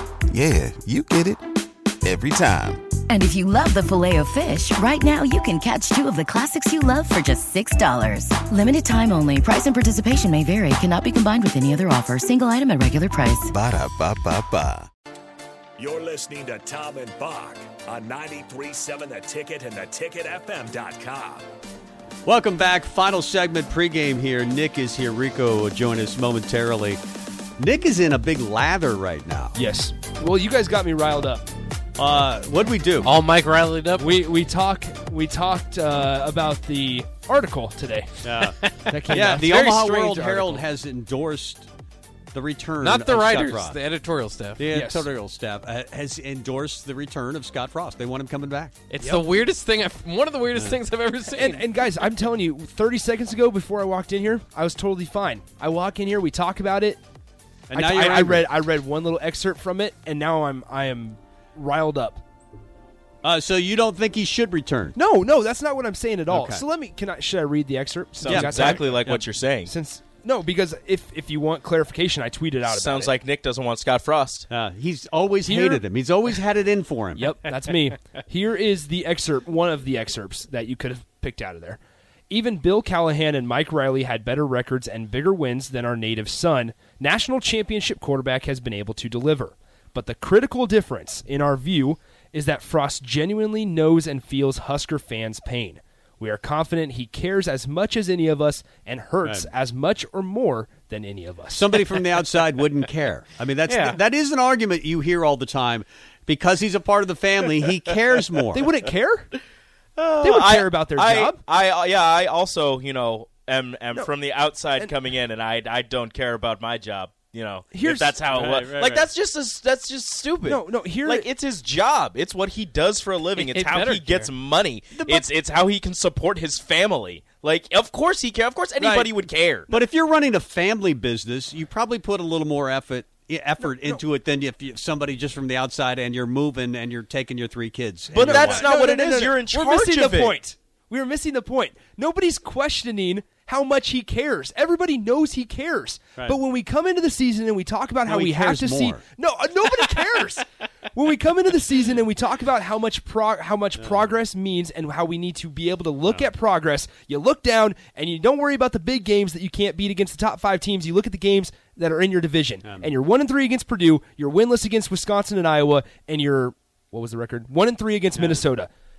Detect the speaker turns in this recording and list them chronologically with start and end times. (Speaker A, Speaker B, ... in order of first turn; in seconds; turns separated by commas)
Speaker A: 0.3-1.4, Speaker A: 2.0-2.8, Speaker B: 3.1-13.5, Speaker A: 13.5-14.9, Speaker C: 15.8-21.4, Speaker D: 22.2-27.0, Speaker D: 27.6-29.6, Speaker E: 29.5-31.4, Speaker D: 32.0-33.1, Speaker F: 33.0-34.2, Speaker E: 34.0-39.5, Speaker D: 38.2-38.6, Speaker F: 38.6-40.6, Speaker D: 39.1-41.7, Speaker D: 42.3-43.8, Speaker F: 42.8-44.7, Speaker D: 44.6-48.7, Speaker E: 44.7-45.1, Speaker F: 48.9-51.7, Speaker E: 51.3-57.0, Speaker D: 57.7-58.5, Speaker E: 57.7-62.2, Speaker D: 63.2-65.0, Speaker E: 64.9-73.1, Speaker D: 66.3-66.6, Speaker G: 68.2-69.7, Speaker D: 68.2-69.2, Speaker G: 72.6-74.5, Speaker D: 74.5-77.3, Speaker E: 75.4-75.8, Speaker E: 77.2-81.8, Speaker E: 82.3-101.7, Speaker D: 99.2-99.5, Speaker D: 101.5-108.6, Speaker F: 103.7-104.0, Speaker E: 108.5-109.3, Speaker G: 110.0-129.7, Speaker E: 110.2-111.4, Speaker E: 117.7-118.8, Speaker D: 118.6-119.1, Speaker E: 120.4-121.3, Speaker F: 123.3-124.3, Speaker D: 125.0-125.2, Speaker E: 128.8-129.1, Speaker D: 129.7-138.7, Speaker E: 133.6-134.0, Speaker G: 138.1-140.3, Speaker E: 138.1-168.7, Speaker D: 148.1-149.0, Speaker D: 168.2-168.4